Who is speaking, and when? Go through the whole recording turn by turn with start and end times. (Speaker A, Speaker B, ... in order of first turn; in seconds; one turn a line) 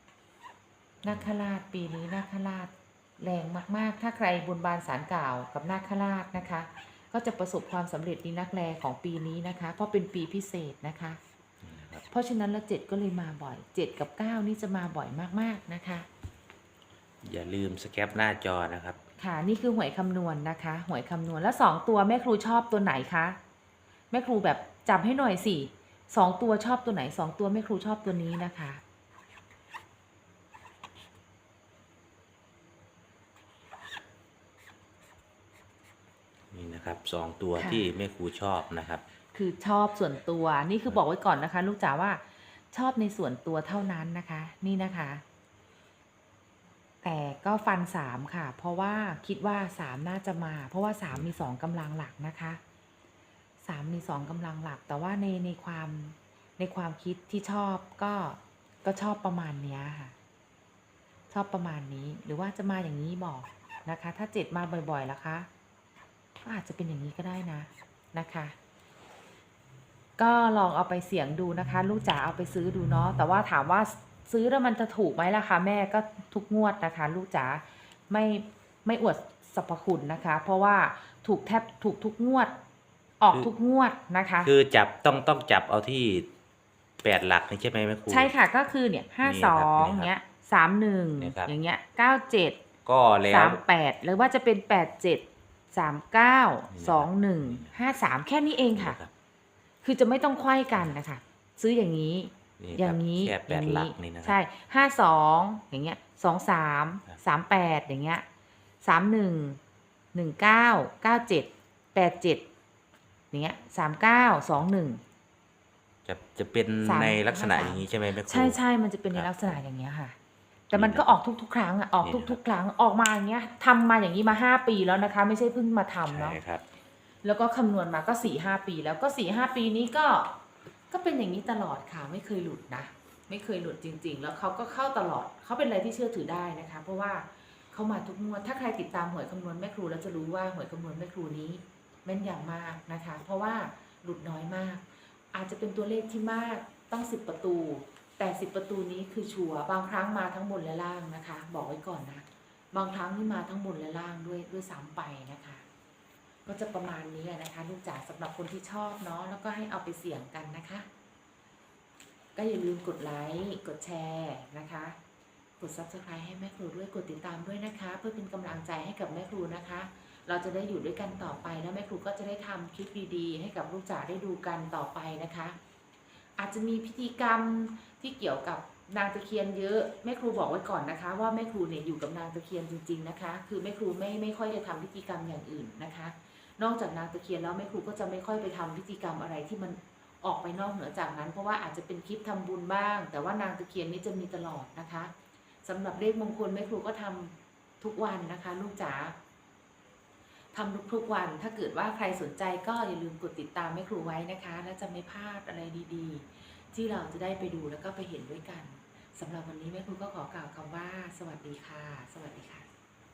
Speaker A: 1.0-11.2
Speaker B: 11.6-12.0
Speaker A: 12.1-16.1
Speaker B: 17.2-19.0
Speaker A: 19.2-23.4
Speaker A: 24.1-28.8
Speaker B: 36.5-39.0
Speaker A: 37.6-37.9
Speaker A: 39.3-45.2
Speaker A: 47.0-52.6
Speaker A: 53.6-60.1
Speaker A: 61.3-65.5
Speaker A: 66.4-68.5
Speaker A: 70.2-82.6
Speaker A: 83.2-84.5
Speaker B: 84.4-86.3
Speaker B: 87.0-88.3
Speaker A: 88.1-92.6
Speaker B: 89.2-90.1
Speaker B: 91.2-91.5
Speaker B: 92.8-93.6
Speaker A: 93.3-99.0
Speaker B: 96.7-97.7
Speaker B: 98.7-99.1
Speaker A: 99.8-108.2
Speaker B: 102.6-104.4
Speaker A: 108.8-109.6
Speaker A: 110.1-112.5
Speaker A: 113.3-115.0
Speaker B: 116.1-118.6
Speaker A: 116.8-120.2
Speaker B: 119.1-119.6
Speaker B: 120.7-121.1
Speaker A: 120.7-126.4
Speaker B: 122.0-122.4
Speaker B: 126.1-126.6
Speaker A: 127.2-130.4
Speaker A: 130.9-155.6
Speaker A: 156.5-160.9
Speaker A: 162.4-165.0
Speaker A: 165.6-175.6
Speaker A: 176.4-195.1
Speaker A: 195.6-199.2
Speaker A: 200.5-212.7